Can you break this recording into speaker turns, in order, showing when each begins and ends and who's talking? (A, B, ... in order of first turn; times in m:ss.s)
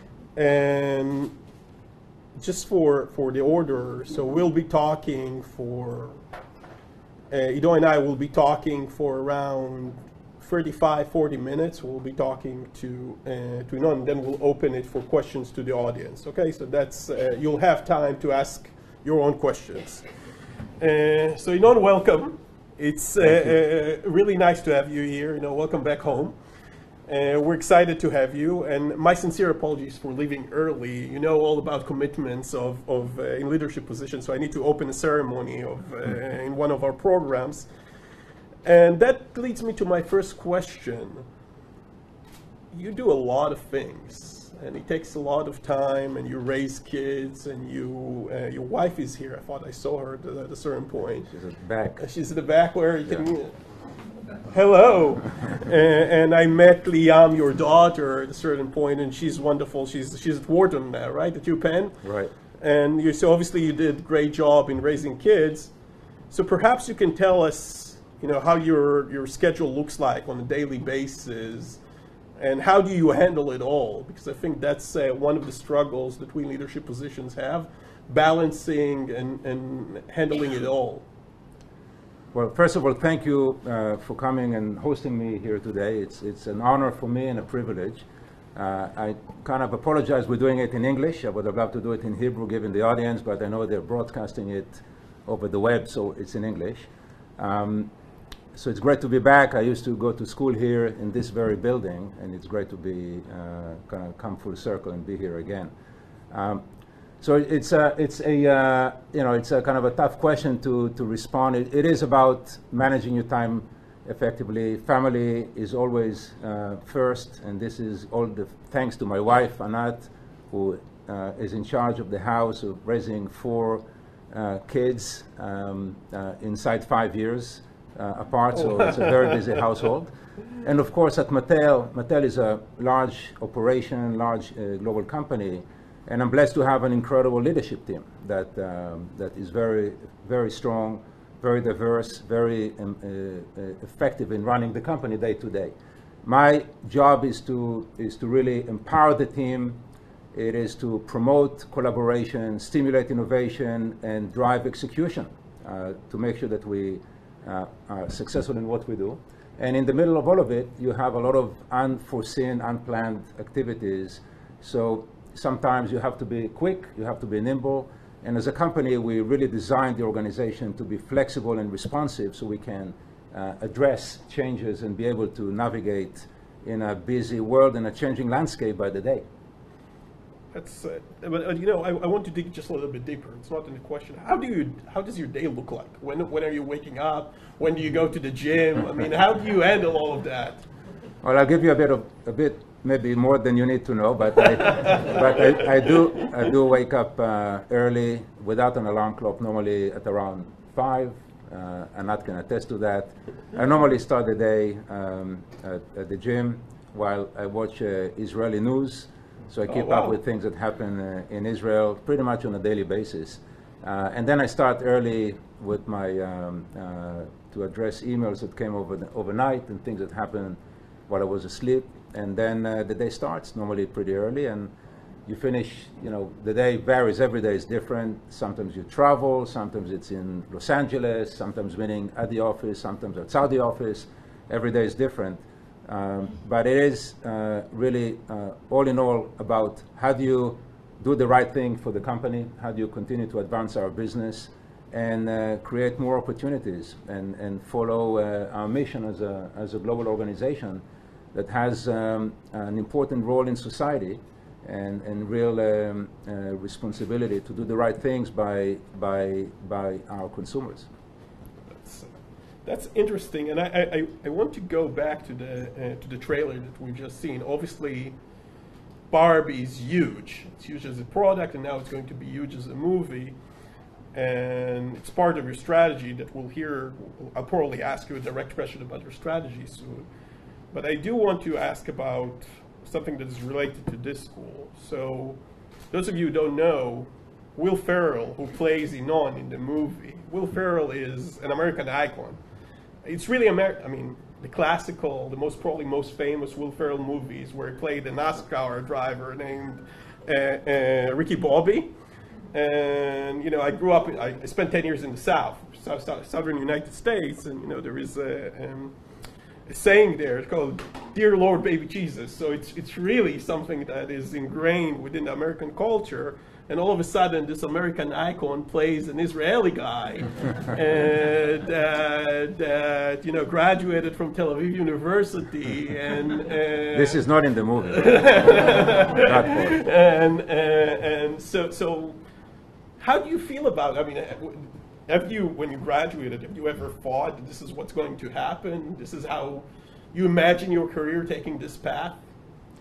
0:00.4-0:01.3 A
0:02.4-0:06.2 A
0:07.3-0:20.1 A
0:20.8-0:26.4 A
0:23.2-0:23.5 B
0:27.1-0:37.7 A
0:38.6-0:41.2 A
0:42.7-0:51.3 A
0:51.3-0:52.0 B
0:52.0-0:53.5 A
0:54.5-1:02.0 A
1:02.0-1:02.3 B
1:02.6-1:05.7 A
1:06.3-1:11.8 A
1:12.4-1:21.0 A
1:22.3-1:37.9 B
1:38.5-1:45.7 B
1:46.3-1:46.6 B
1:47.2-2:29.8 B
2:30.3-2:59.2 B
3:00.5-3:10.6 A
3:11.2-3:44.7 B
3:14.7-3:15.2 A
3:29.7-3:30.2 A
3:45.2-4:20.9 B
4:21.7-4:22.1 A
4:22.6-4:28.2 A
4:29.1-4:33.4 A
4:34.1-4:40.1 A
4:40.7-4:45.4 A
4:45.9-4:52.4 A
4:53.0-5:01.9 A
5:02.5-5:09.0 A
5:09.6-5:27.2 A
5:26.9-5:29.8 B
5:27.9-5:32.2 A
5:33.0-5:42.2 A